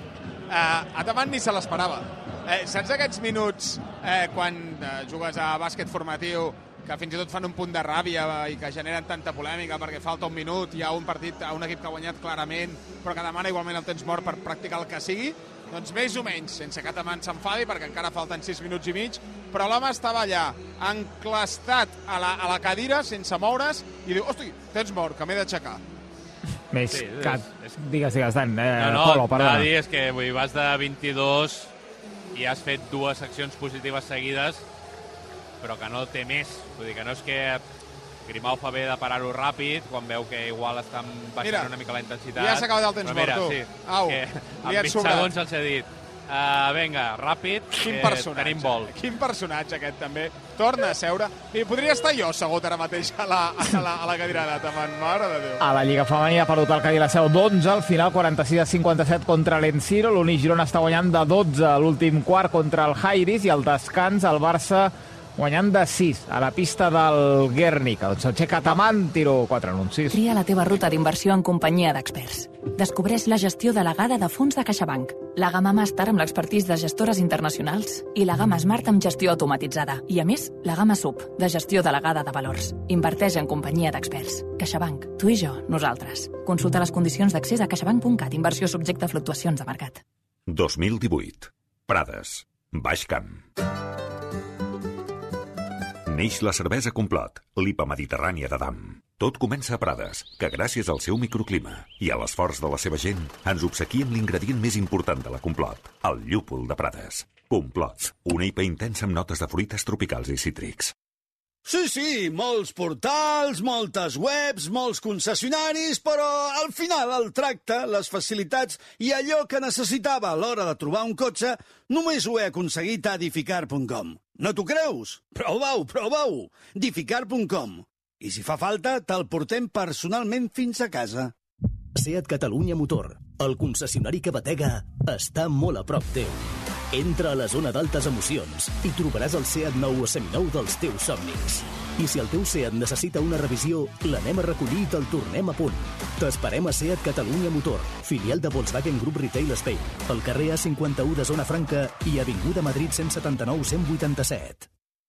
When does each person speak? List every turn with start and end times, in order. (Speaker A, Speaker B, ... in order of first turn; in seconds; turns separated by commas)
Speaker A: 0.5-25.8, Speaker B: 26.7-29.7, Speaker C: 26.9-27.8, Speaker C: 28.8-31.7, Speaker C: 32.3-34.7, Speaker C: 35.6-37.6, Speaker C: 38.3-48.9, Speaker A: 41.4-41.7, Speaker A: 42.3-45.4, Speaker A: 47.8-55.6, Speaker B: 55.6-70.2, Speaker D: 70.1-90.0, Speaker E: 90.5-93.5, Speaker E: 96.1-110.9, Speaker F: 111.6-131.3, Speaker G: 131.9-154.7